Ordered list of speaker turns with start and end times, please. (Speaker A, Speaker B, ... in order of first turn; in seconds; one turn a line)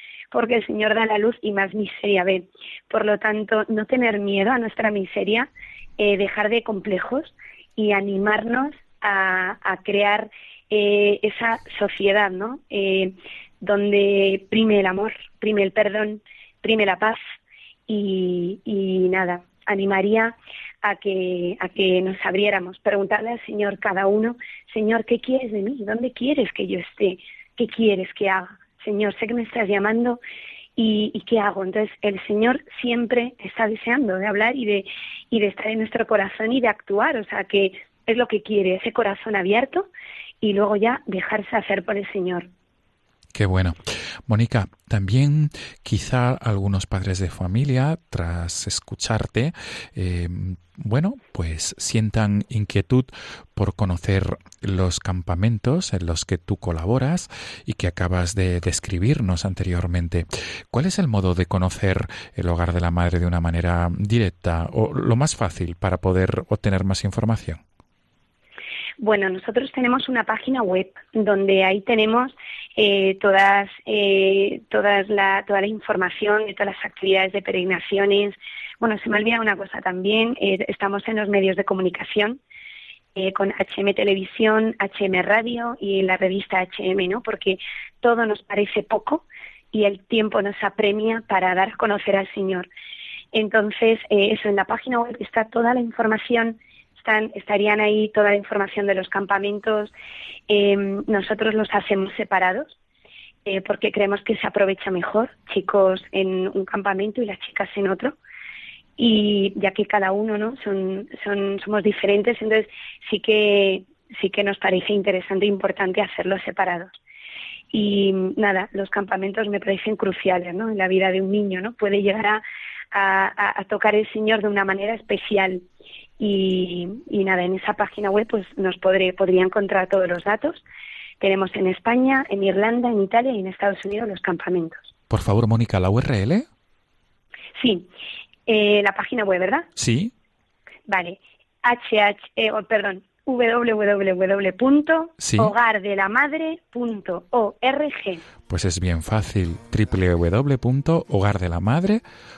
Speaker A: 0.3-17.2
Speaker A: 17.9-30.2
Speaker A: 30.8-39.9
Speaker A: 40.4-42.5
Speaker B: 43.3-67.6
Speaker A: 69.0-82.4
Speaker A: 83.2-92.7
Speaker A: 93.3-99.9
Speaker A: 100.5-102.8
Speaker A: 103.5-108.1
Speaker A: 109.0-116.9
Speaker A: 117.7-122.4
Speaker A: 122.9-125.6
Speaker A: 126.2-130.6
Speaker A: 131.2-134.9
Speaker B: 135.1-136.5
Speaker A: 137.6-137.9
Speaker A: 138.5-139.7
Speaker B: 139.8-140.1
Speaker A: 140.9-148.2
Speaker B: 145.2-145.5
Speaker B: 148.5-152.0